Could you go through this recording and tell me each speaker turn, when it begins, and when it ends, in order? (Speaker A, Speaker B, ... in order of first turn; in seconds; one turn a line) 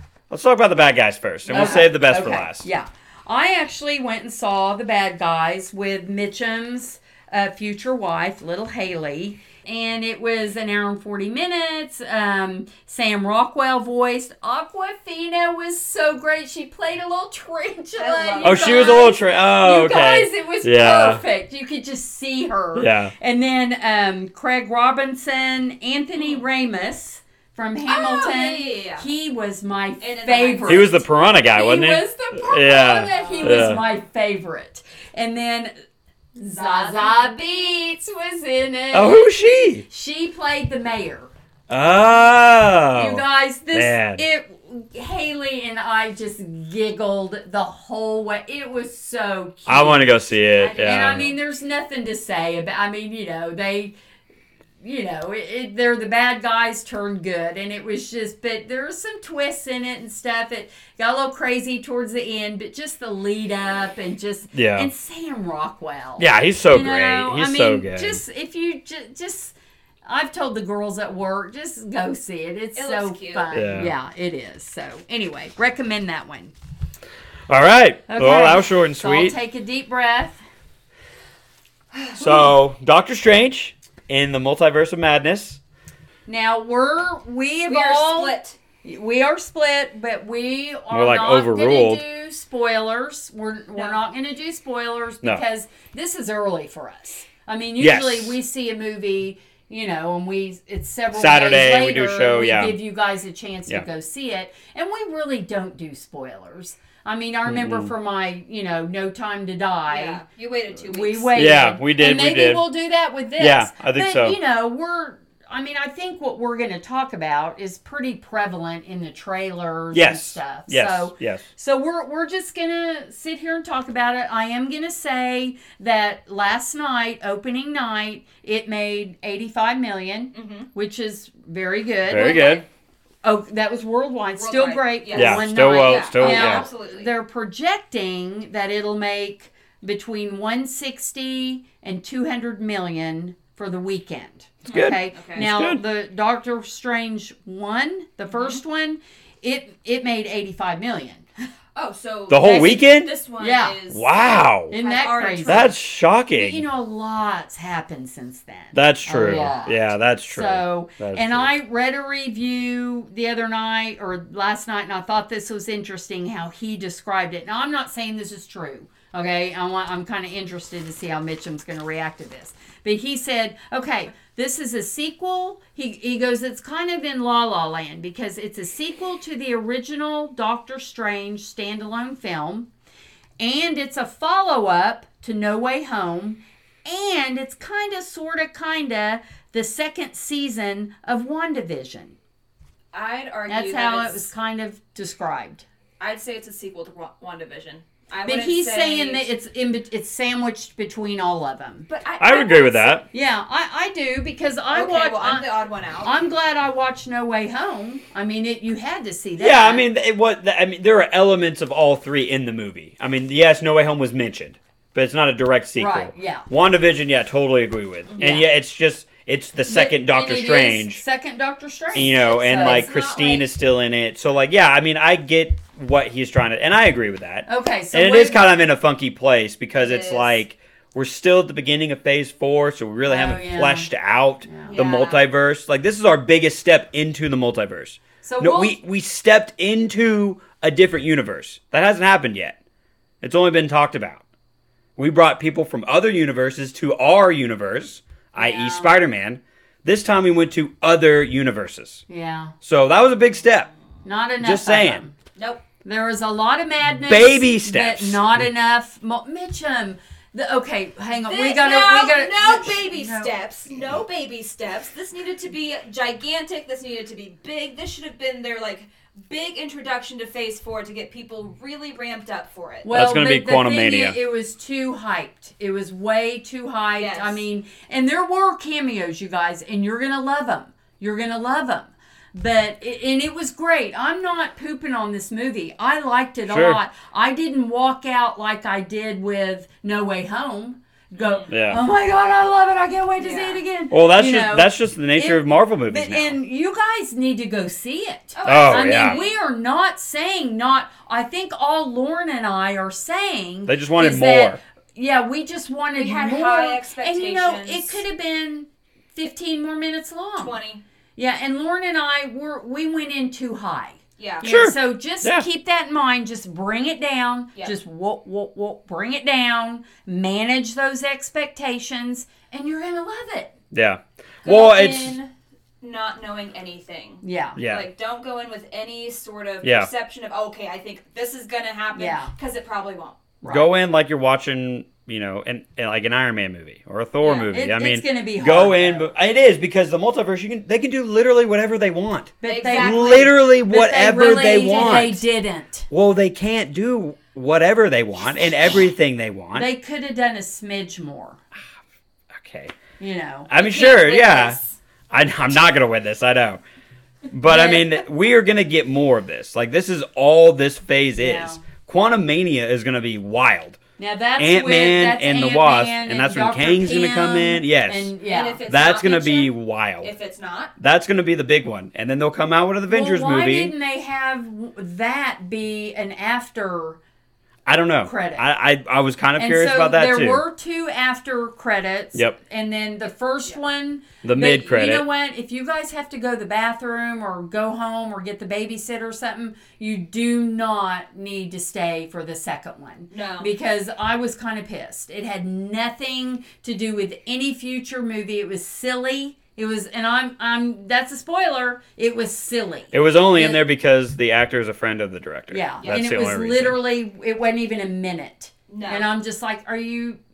Speaker A: 0.3-2.7
Speaker B: 1.5-35.7
Speaker C: 1.5-1.8
Speaker C: 18.0-19.1
Speaker A: 18.4-21.2
Speaker A: 22.8-23.1
Speaker C: 26.2-26.4
Speaker C: 27.9-29.1
Speaker C: 30.0-30.9
Speaker A: 30.7-33.8
Speaker C: 33.1-33.8
Speaker B: 36.4-41.3
Speaker C: 36.5-37.4
Speaker A: 38.9-39.9
Speaker A: 41.7-44.2
Speaker B: 42.9-54.0
Speaker A: 49.7-51.3
Speaker C: 50.6-51.4
Speaker B: 54.8-76.5
Speaker A: 64.5-64.9
Speaker A: 66.2-68.2
Speaker C: 72.8-73.6
Speaker A: 73.5-73.9
Speaker A: 77.5-79.4
Speaker B: 78.1-80.4
Speaker C: 81.9-82.5
Speaker A: 82.2-85.6
Speaker B: 86.3-110.2
Speaker C: 87.7-88.6
Speaker A: 90.9-92.0
Speaker A: 97.8-98.4
Speaker A: 101.1-102.8
Speaker A: 107.5-107.9
Speaker C: 109.9-111.4
Speaker B: 110.9-132.7
Speaker A: 111.3-112.7
Speaker A: 113.4-114.4
Speaker A: 119.9-121.5
Speaker C: 130.3-130.7
Speaker A: 132.1-132.6
Speaker B: 133.2-151.3
Speaker C: 134.4-137.1
Speaker A: 135.1-136.7
Speaker A: 144.7-145.8
Speaker C: 144.7-145.5
Speaker C: 148.3-148.6
Speaker C: 151.8-155.8
Speaker A: 152.3-153.1
Speaker B: 152.4-152.8
Speaker B: 153.4-153.8
Speaker A: 153.9-154.7
Speaker B: 154.7-155.7
Speaker A: 155.5-156.7
Speaker B: 156.3-182.7
Speaker A: 158.7-161.5
Speaker B: 183.4-192.2
Speaker C: 192.9-194.3
Speaker B: 193.5-195.7
Speaker C: 196.0-199.3
Speaker B: 198.3-201.9
Speaker C: 201.9-203.0
Speaker A: 202.2-203.1
Speaker B: 203.1-205.5
Speaker C: 204.7-206.2
Speaker B: 206.0-209.8
Speaker A: 209.4-221.0
Speaker B: 215.8-216.5
Speaker C: 218.1-218.4
Speaker B: 218.2-218.5
Speaker B: 219.7-222.9
Speaker A: 221.9-242.6
Speaker C: 221.9-223.5
Speaker B: 227.5-228.4
Speaker C: 229.8-230.4
Speaker B: 233.1-233.9
Speaker B: 234.5-234.8
Speaker C: 234.7-235.2
Speaker B: 238.2-238.8
Speaker A: 243.2-244.2
Speaker A: 245.0-252.0
Speaker B: 248.4-249.0
Speaker B: 252.1-252.6
Speaker A: 252.6-253.7
Speaker B: 254.0-255.2
Speaker A: 254.4-255.0
Speaker C: 255.4-255.6
Speaker B: 255.8-263.3
Speaker A: 257.1-258.4
Speaker C: 261.3-272.9
Speaker B: 272.8-310.6
Speaker A: 272.9-274.2
Speaker C: 277.0-277.4
Speaker A: 286.5-286.8
Speaker C: 291.2-291.5
Speaker A: 291.5-291.8
Speaker C: 293.2-293.6
Speaker A: 293.9-296.4
Speaker C: 298.4-299.4
Speaker A: 298.4-299.2
Speaker A: 303.7-304.6
Speaker C: 305.9-308.0
Speaker C: 310.4-310.8
Speaker B: 311.2-323.5
Speaker C: 314.2-314.5
Speaker A: 314.4-315.5
Speaker A: 323.7-325.2
Speaker C: 324.4-333.2
Speaker B: 327.2-327.6
Speaker A: 327.6-327.9
Speaker A: 329.6-329.9
Speaker B: 331.9-332.3
Speaker B: 333.4-333.7
Speaker A: 333.5-345.2
Speaker C: 337.2-337.5
Speaker B: 337.5-339.1
Speaker B: 342.4-345.9
Speaker C: 342.4-343.3
Speaker A: 345.9-349.7
Speaker B: 349.6-351.4
Speaker A: 352.3-352.7
Speaker B: 353.0-353.5
Speaker A: 353.5-354.6
Speaker C: 353.6-354.8
Speaker A: 355.1-356.6
Speaker A: 357.3-363.8
Speaker B: 357.5-358.0
Speaker B: 361.2-361.6
Speaker B: 364.0-368.6
Speaker A: 364.4-368.1
Speaker C: 368.3-370.7
Speaker A: 368.7-370.1
Speaker A: 370.8-373.7
Speaker B: 372.9-377.0
Speaker A: 377.7-380.4
Speaker B: 378.0-378.4
Speaker B: 379.4-403.6
Speaker A: 384.2-385.1
Speaker C: 393.1-393.5
Speaker A: 402.9-406.8
Speaker B: 405.5-410.2
Speaker C: 408.7-409.1